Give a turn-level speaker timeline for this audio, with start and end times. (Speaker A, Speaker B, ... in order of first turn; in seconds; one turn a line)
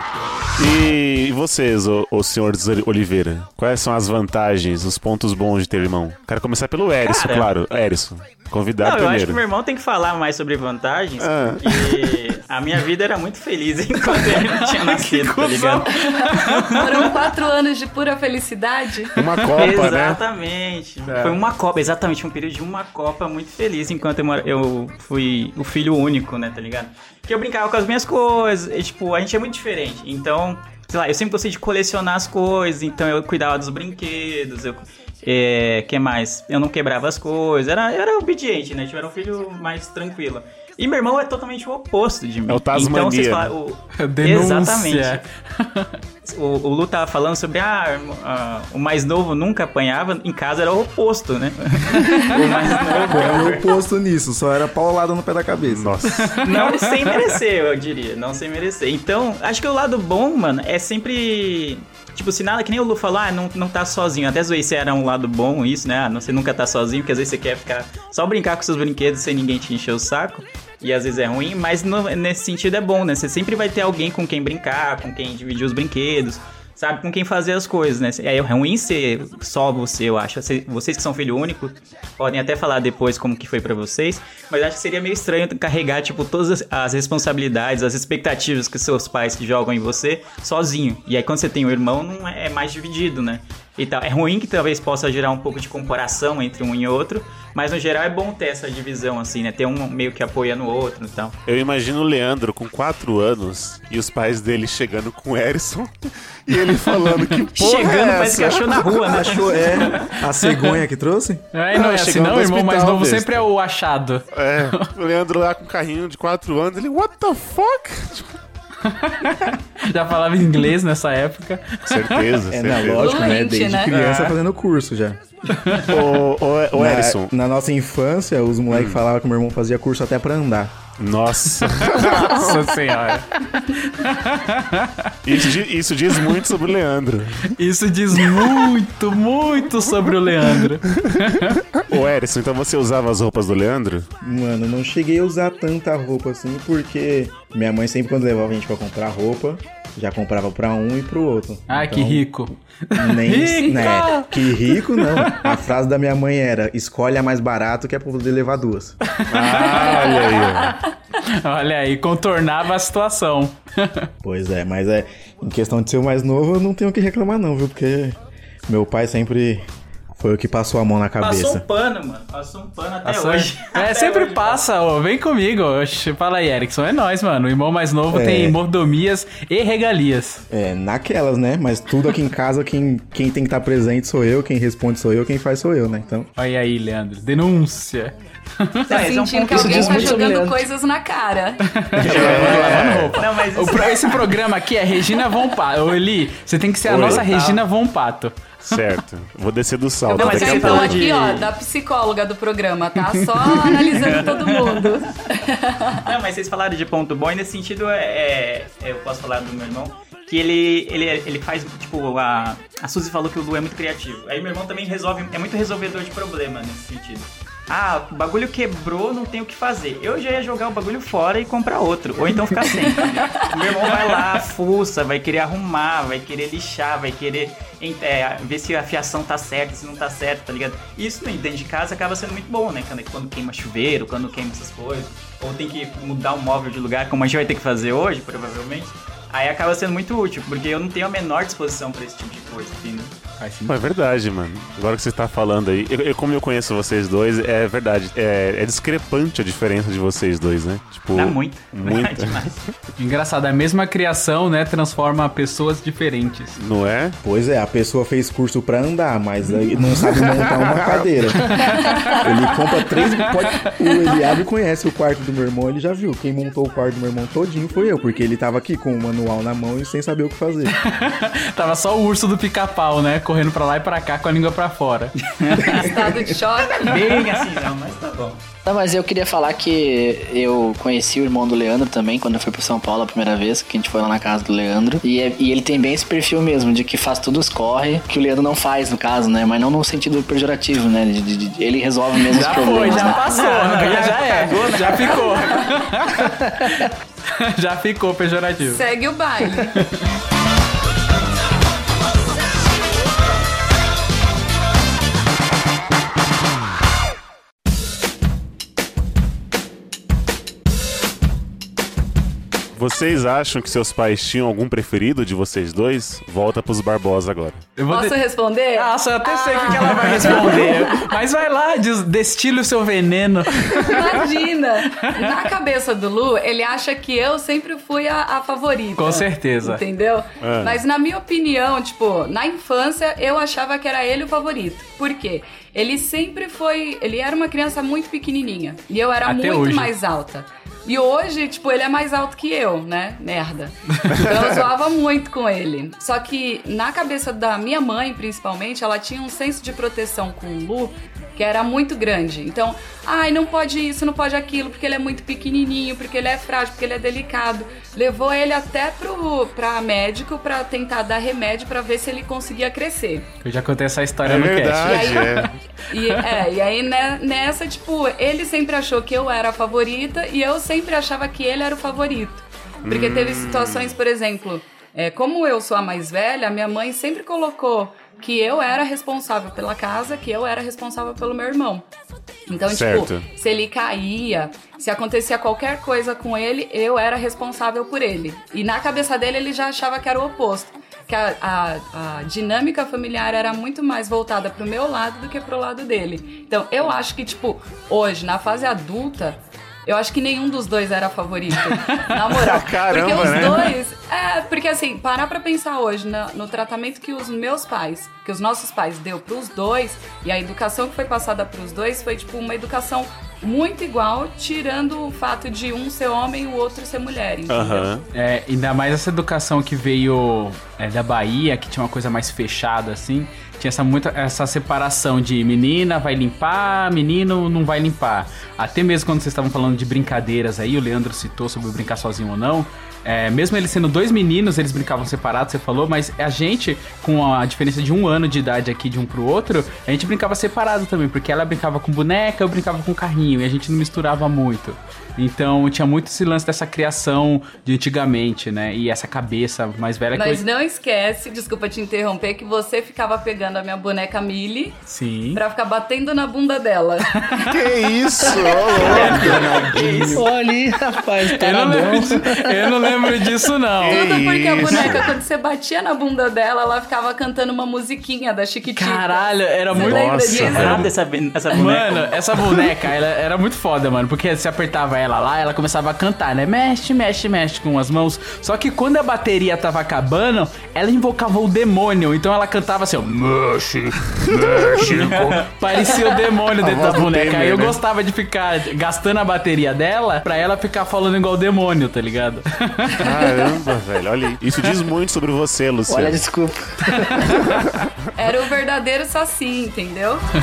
Speaker A: 0.6-9.4
Speaker B: 7.0-7.5
Speaker B: 8.8-15.9
Speaker A: 11.2-12.2
Speaker C: 14.1-16.8
Speaker B: 16.6-16.9
Speaker D: 16.7-19.1
Speaker C: 19.1-19.4
Speaker A: 19.1-20.2
Speaker B: 19.6-45.2
Speaker A: 21.1-21.4
Speaker A: 42.5-43.5
Speaker C: 44.0-46.0
Speaker B: 46.2-53.7
Speaker E: 53.0-56.0
Speaker A: 55.7-56.4
Speaker C: 56.0-57.2
Speaker B: 56.4-101.4
Speaker A: 101.5-108.8
Speaker B: 107.5-110.1
Speaker E: 109.0-111.4
Speaker C: 111.5-114.8
Speaker A: 111.7-113.5
Speaker A: 114.3-118.3
Speaker C: 118.8-122.4
Speaker A: 121.9-123.2
Speaker E: 122.5-125.2
Speaker D: 123.0-124.1
Speaker C: 125.6-125.9
Speaker A: 125.8-127.3
Speaker E: 126.7-130.7
Speaker A: 128.7-129.0
Speaker A: 131.0-132.7
Speaker C: 131.6-135.2
Speaker A: 135.2-137.5
Speaker C: 137.5-141.6
Speaker A: 138.3-138.7
Speaker A: 140.9-144.1
Speaker E: 144.2-152.4
Speaker C: 151.7-155.5
Speaker E: 152.9-159.0
Speaker C: 159.1-160.7
Speaker A: 159.3-160.8
Speaker C: 161.3-164.1
Speaker E: 164.2-169.7
Speaker E: 170.2-171.7
Speaker B: 171.2-174.6
Speaker C: 173.0-180.4
Speaker E: 178.1-178.6
Speaker E: 180.5-186.3
Speaker C: 186.4-188.9
Speaker B: 188.9-190.4
Speaker D: 188.9-192.3
Speaker F: 189.4-190.6
Speaker C: 191.7-198.8
Speaker A: 192.0-193.2
Speaker B: 192.0-194.4
Speaker A: 196.8-197.2
Speaker B: 196.9-197.6
Speaker A: 198.6-201.1
Speaker D: 200.1-206.0
Speaker B: 200.1-201.5
Speaker B: 203.9-205.1
Speaker B: 206.0-243.1
Speaker C: 243.4-243.8
Speaker A: 243.7-252.7
Speaker B: 251.1-252.6
Speaker C: 253.0-256.6
Speaker A: 256.6-257.2
Speaker E: 257.2-270.8
Speaker C: 261.5-262.2
Speaker D: 261.6-262.6
Speaker D: 263.9-264.2
Speaker C: 270.8-275.1
Speaker B: 275.4-275.8
Speaker D: 275.6-277.2
Speaker B: 276.8-278.4
Speaker F: 278.6-293.2
Speaker C: 292.3-298.8
Speaker D: 292.4-293.2
Speaker B: 293.2-295.4
Speaker D: 295.0-295.8
Speaker D: 298.6-299.7
Speaker A: 312.7-317.7
Speaker C: 317.8-318.2
Speaker D: 317.9-321.1
Speaker C: 318.7-324.3
Speaker D: 323.9-363.3
Speaker C: 328.9-329.8
Speaker A: 330.4-330.8
Speaker C: 339.2-339.9
Speaker C: 363.4-365.5
Speaker A: 364.2-365.6
Speaker D: 364.8-381.8
Speaker A: 372.8-374.0
Speaker D: 382.5-417.9
Speaker A: 382.6-383.3
Speaker C: 401.8-402.1
Speaker A: 402.3-403.8
Speaker A: 417.5-418.1
Speaker C: 418.1-450.4
Speaker D: 450.1-454.8
Speaker C: 454.9-455.4
Speaker D: 455.3-459.1
Speaker A: 457.5-459.4
Speaker B: 458.8-460.2
Speaker E: 458.8-460.3
Speaker F: 460.1-462.9
Speaker C: 461.2-464.0
Speaker A: 463.8-465.0
Speaker D: 463.8-470.8
Speaker C: 468.7-470.9
Speaker A: 469.7-470.9
Speaker B: 470.4-472.6
Speaker C: 471.5-493.0
Speaker A: 484.4-484.9
Speaker B: 484.9-485.4
Speaker A: 486.6-487.8
Speaker A: 493.0-496.2
Speaker F: 495.9-497.3
Speaker A: 497.4-498.1
Speaker D: 498.1-500.3